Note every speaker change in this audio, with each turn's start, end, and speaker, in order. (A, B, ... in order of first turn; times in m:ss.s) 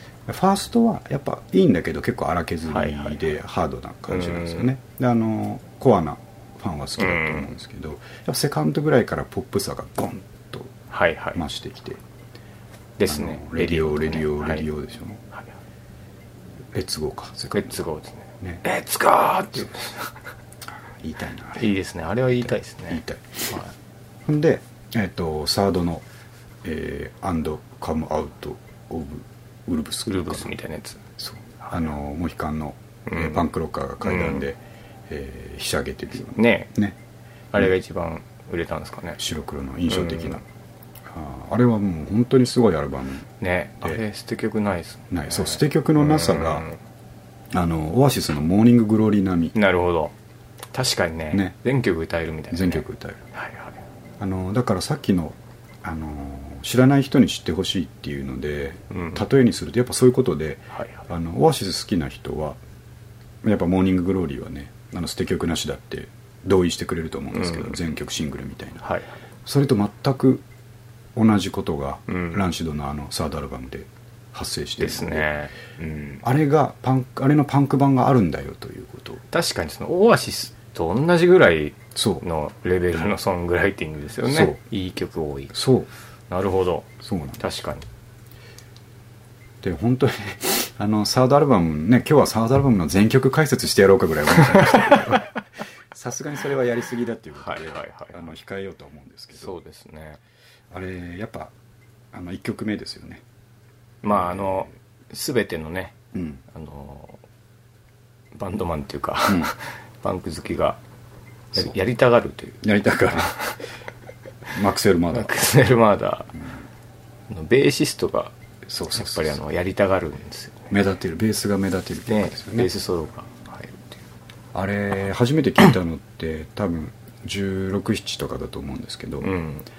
0:00.3-0:10.7 A
0:02.7-0:03.2 B
0:04.1-0:04.7 B
0:07.0-0:07.5 B
0:10.9-0:11.4 B
0:11.3-0:12.0 A
0:13.0-0:14.6 B
0:13.0-0:15.2 A
0:16.7-0:17.8 A
0:17.5-0:20.2 B
0:21.0-0:21.7 A
0:21.6-0:23.7 B
0:22.9-0:23.6 A
0:24.2-0:26.0 A
0:26.6-0:30.5 A
0:30.0-0:31.0 B
0:31.2-0:34.6 A
0:33.1-0:33.5 B
0:34.0-0:34.4 B
0:35.1-0:37.0 A
0:36.3-0:36.7 B
0:37.5-0:39.2 B
0:39.2-0:40.4 A
0:39.9-0:40.4 B
0:41.1-0:44.0 A
0:43.4-0:46.8 B
0:45.1-0:46.7 A
0:47.5-0:49.5 A
0:49.5-0:50.1 B
0:50.7-0:53.8 B
0:52.5-0:53.2 A
0:54.2-1:02.6 A
0:58.9-0:59.2 B
1:00.7-1:01.0 B
1:03.4-1:08.8 A
1:07.3-1:07.8 B
1:08.8-1:09.2 B
1:09.4-1:10.4 A
1:11.2-1:15.3 A
1:12.1-1:12.4 B
1:14.8-1:16.2 B
1:16.2-1:19.2 A
1:19.3-1:25.5 B
1:21.9-1:22.2 A
1:24.3-1:24.6 A
1:25.5-1:25.9 A
1:26.3-1:27.8 B
1:27.0-1:27.4 A
1:29.6-1:35.4 A
1:34.4-1:35.2 B
1:35.9-1:39.5 A
1:37.4-1:38.3 B
1:39.4-1:40.2 B
1:40.7-1:41.5 A
1:42.1-1:43.2 A
1:44.0-1:46.0 B
1:44.1-1:44.7 A
1:46.1-1:46.4 A
1:46.5-1:47.2 B
1:48.3-1:50.8 B
1:49.3-1:49.5 A
1:51.5-1:52.6 B
1:52.6-1:53.5 A
1:53.2-1:53.6 B
1:54.5-1:55.4 A
1:55.1-1:56.3 B
1:57.3-1:58.3 B
1:58.7-1:59.3 A
1:58.9-2:00.7 B
2:00.7-2:02.7 A
2:02.1-2:04.0 B
2:04.5-2:09.3 A
2:09.2-2:09.7 B